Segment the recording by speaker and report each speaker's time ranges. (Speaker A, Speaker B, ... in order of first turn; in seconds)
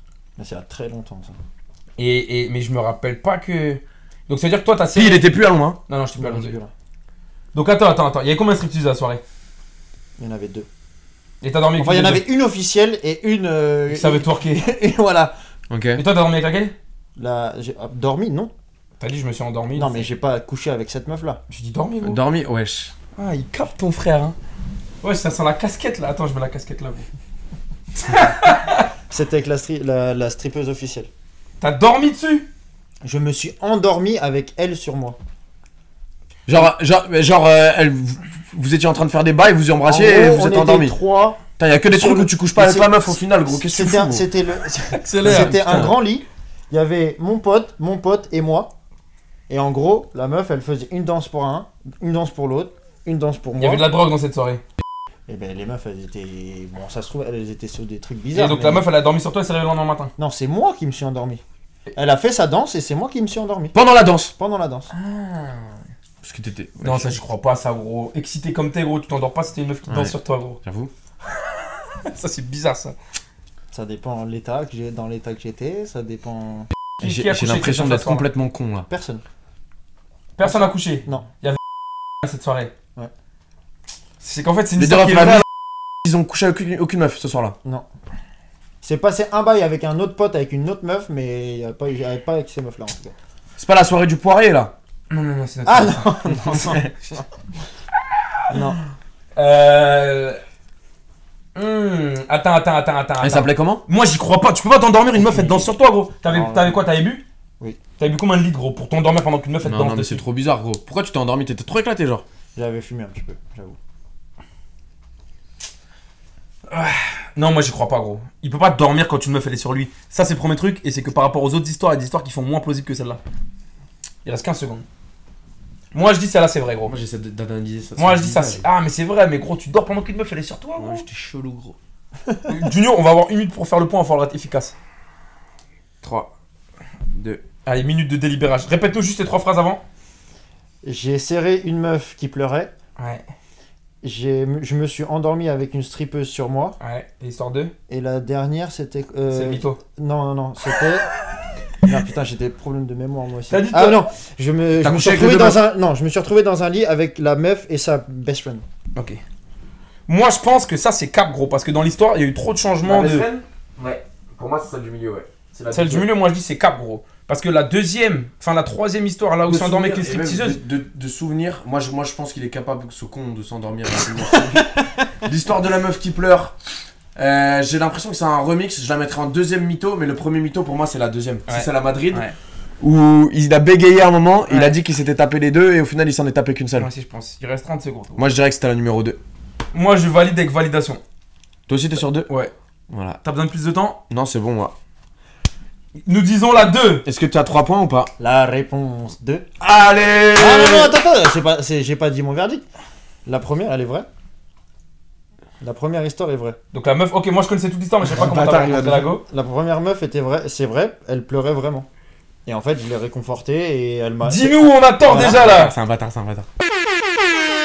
Speaker A: 0.4-1.4, 6.2-6.7, 10.2-10.7, 11.8-15.3, 17.2-18.5, 19.8-21.4, 29.1-31.1, 33.0-35.2, 39.9-48.7, 49.5-53.9, 55.3-58.9, 60.2-61.4, 62.0-63.8, 64.4-64.9, 73.7-76.7, 78.9-79.2, 80.4-81.3, 88.8-93.1, 95.7-97.2, 98.5-98.8, 105.1-105.7, 106.3-106.8, 112.5-113.8, 140.8-142.7, 144.0-146.8, 147.9-151.1, 151.8-158.6, 174.3-175.1, 198.2-199.5, 200.4-202.7, 203.3-204.1, 205.6-206.6, 209.1-211.9, 212.5-215.5
Speaker B: 2.0-5.3, 5.9-6.6, 7.5-9.2, 11.4-12.3, 13.9-14.7, 16.0-16.7, 19.0-20.1, 21.5-22.2, 23.2-24.4, 25.0-27.1, 28.0-28.9, 31.6-32.5, 44.9-45.9, 53.6-54.6, 58.4-60.1, 64.9-65.8, 66.8-70.6, 71.4-73.0, 77.0-78.3, 80.4-81.6, 82.2-82.7, 84.2-85.5, 95.1-96.1, 99.4-100.4, 101.5-107.2, 108.0-110.2, 116.7-123.2, 124.2-124.8, 125.9-126.9, 128.0-131.1, 132.5-134.8, 137.6-139.8, 143.0-143.3, 146.8-147.7, 149.3-149.8, 153.5-154.1, 160.1-163.3, 165.7-170.6, 181.5-182.4, 184.5-184.8, 186.8-188.2, 189.7-191.0, 192.3-192.5, 193.2-194.0, 196.0-197.0, 206.7-209.2, 214.2-215.8
Speaker C: 4.9-5.8, 15.7-16.0, 22.0-22.9, 36.5-41.0, 41.6-44.3, 45.2-45.9, 63.7-64.3, 66.2-67.2, 69.9-70.9, 77.0-78.9, 84.8-85.5, 86.0-87.6, 93.6-94.7, 96.3-96.9, 103.2-103.8, 109.6-112.2, 126.8-128.6, 130.8-131.8, 136.0-136.3, 137.1-137.4, 154.8-155.6, 162.8-166.1, 169.4-174.6, 175.3-176.6, 177.2-182.2, 182.8-186.9, 188.2-189.2, 191.7-192.3, 192.9-193.2, 194.1-194.8, 197.1-198.1, 199.6-200.9, 208.0-209.1, 215.1-216.5